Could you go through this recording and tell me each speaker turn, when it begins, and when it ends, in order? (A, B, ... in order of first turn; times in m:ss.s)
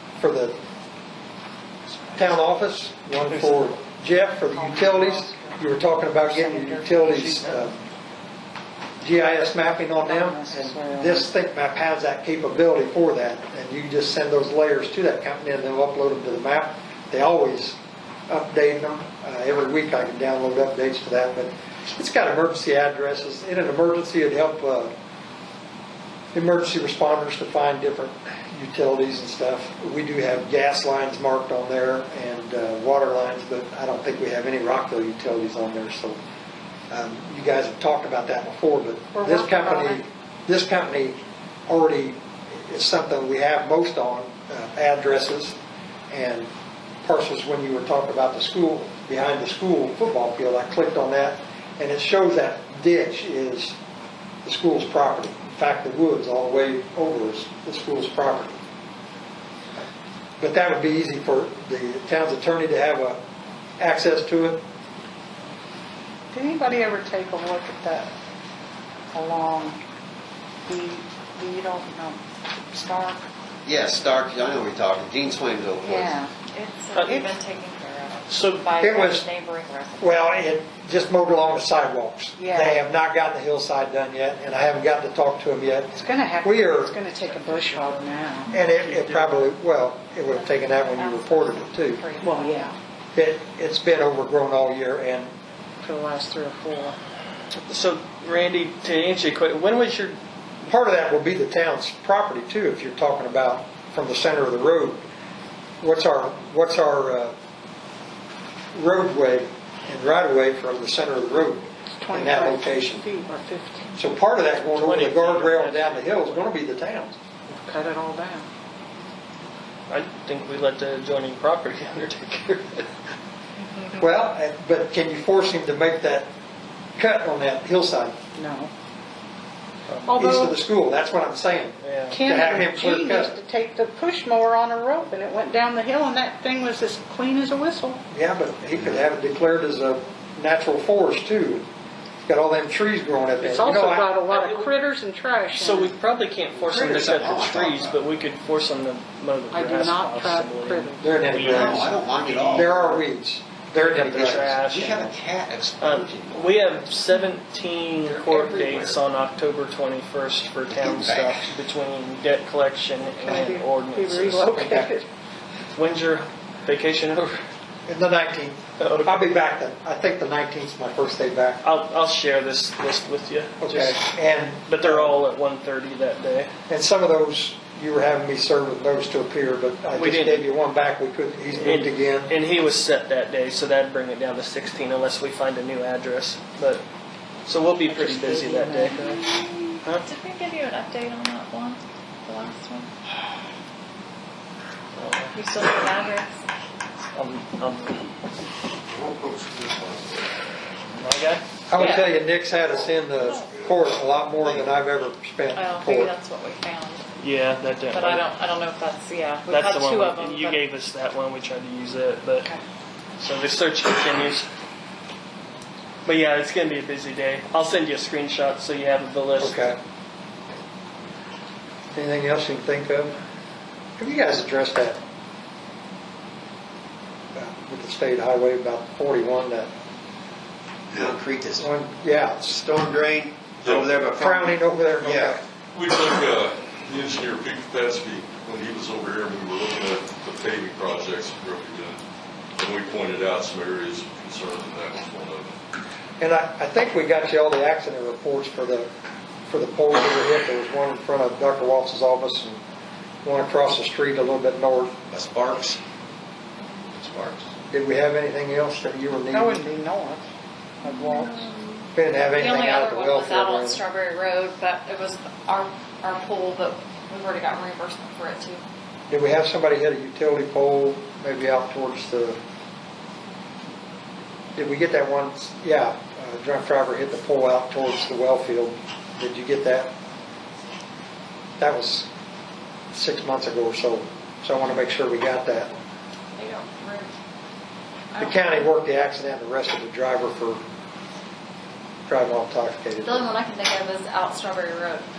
0:00.2-0:00.6 A
0:01.9-0:02.3 B
0:02.1-0:07.8 A
0:03.3-0:03.7 B
0:04.5-0:07.3 B
0:07.1-0:07.7 C
0:09.0-0:24.9 A
0:10.0-0:11.3 B
0:26.3-0:36.2 A
0:36.9-0:45.6 A
0:39.1-0:40.0 B
0:46.1-0:46.5 A
0:47.0-0:53.8 A
0:54.4-0:58.6 A
1:00.4-1:03.2 A
1:03.8-1:04.6 A
1:06.3-1:08.1 B
1:09.1-1:09.8 B
1:10.6-1:13.2 B
1:13.6-1:16.2 D
1:15.8-1:16.3 B
1:16.5-1:20.3 E
1:16.9-1:17.2 C
1:17.0-1:17.3 B
1:18.3-1:18.6 C
1:18.8-1:19.2 A
1:20.0-1:27.0 A
1:22.4-1:22.8 B
1:25.9-1:28.5 B
1:27.5-1:27.9 C
1:28.5-1:32.0 A
1:28.8-1:29.4 C
1:30.3-1:32.6 E
1:32.2-1:32.8 B
1:33.1-1:35.3 A
1:35.8-1:37.0 B
1:37.6-1:40.2 C
1:40.7-1:45.0 A
1:45.8-1:47.3 A
1:48.7-1:53.0 A
1:52.0-1:53.9 B
1:54.0-1:57.2 A
1:54.6-1:56.4 C
1:57.5-1:58.4 B
1:59.9-2:02.8 C
2:03.9-2:06.3 A
2:07.0-2:08.1 A
2:08.4-2:08.7 B
2:10.1-2:10.6 B
2:10.1-2:13.3 A
2:11.8-2:12.2 C
2:12.1-2:18.0 B
2:18.1-2:21.6 A
2:22.2-2:24.1 A
2:23.4-2:25.9 B
2:24.3-2:24.7 C
2:25.6-2:30.9 C
2:26.6-2:28.0 D
2:29.5-2:31.8 B
2:31.0-2:31.9 A
2:31.3-2:32.9 D
2:32.2-2:32.9 C
2:32.5-2:34.5 A
2:33.8-2:35.1 C
2:34.1-2:36.7 D
2:35.8-2:44.9 C
2:38.1-2:39.0 D
2:40.7-2:41.5 D
2:43.2-2:45.1 B
2:45.7-2:47.3 C
2:47.8-2:51.6 A
2:48.8-2:49.2 C
2:51.6-2:54.0 C
2:53.6-2:55.2 A
2:54.7-2:56.5 C
2:56.7-3:02.4 A
2:59.9-3:00.4 C
3:01.5-3:06.8 C
3:07.4-3:09.0 C
3:07.8-3:09.4 B
3:09.0-3:12.9 E
3:15.0-3:15.4 C
3:15.3-3:16.4 E
3:17.1-3:18.0 C
3:19.0-3:19.9 F
3:21.0-3:21.4 C
3:21.7-3:26.1 A
3:21.7-3:22.1 E
3:23.2-3:23.5 E
3:25.5-3:27.1 E
3:27.2-3:28.2 C
3:27.9-3:30.6 E
3:29.5-3:32.5 C
3:33.2-3:34.5 C
3:36.0-3:39.6 C
3:39.4-3:39.8 A
3:41.9-3:43.1 A
3:44.0-3:45.0 A
3:47.3-3:49.7 A
3:50.9-3:51.6 D
3:51.6-3:52.6 A
3:52.5-3:55.4 D
3:53.6-3:53.9 F
3:54.1-3:55.4 A
3:55.7-4:02.0 F
4:02.6-4:05.5 F
4:06.2-4:08.9 A
4:09.5-4:12.6 A
4:13.2-4:14.9 A
4:15.1-4:15.8 D
4:16.9-4:17.4 D
4:17.7-4:19.6 A
4:19.3-4:20.2 B
4:20.8-4:21.5 B
4:20.8-4:28.6 E
4:21.9-4:23.8 A
4:29.1-4:32.4 A
4:34.5-4:39.9 A
4:41.6-4:42.1 A
4:42.9-4:45.7 A
4:46.4-4:47.1 E
4:48.1-4:48.6 E
4:48.2-4:50.6 A
4:52.1-4:53.3 A
4:53.0-4:55.1 E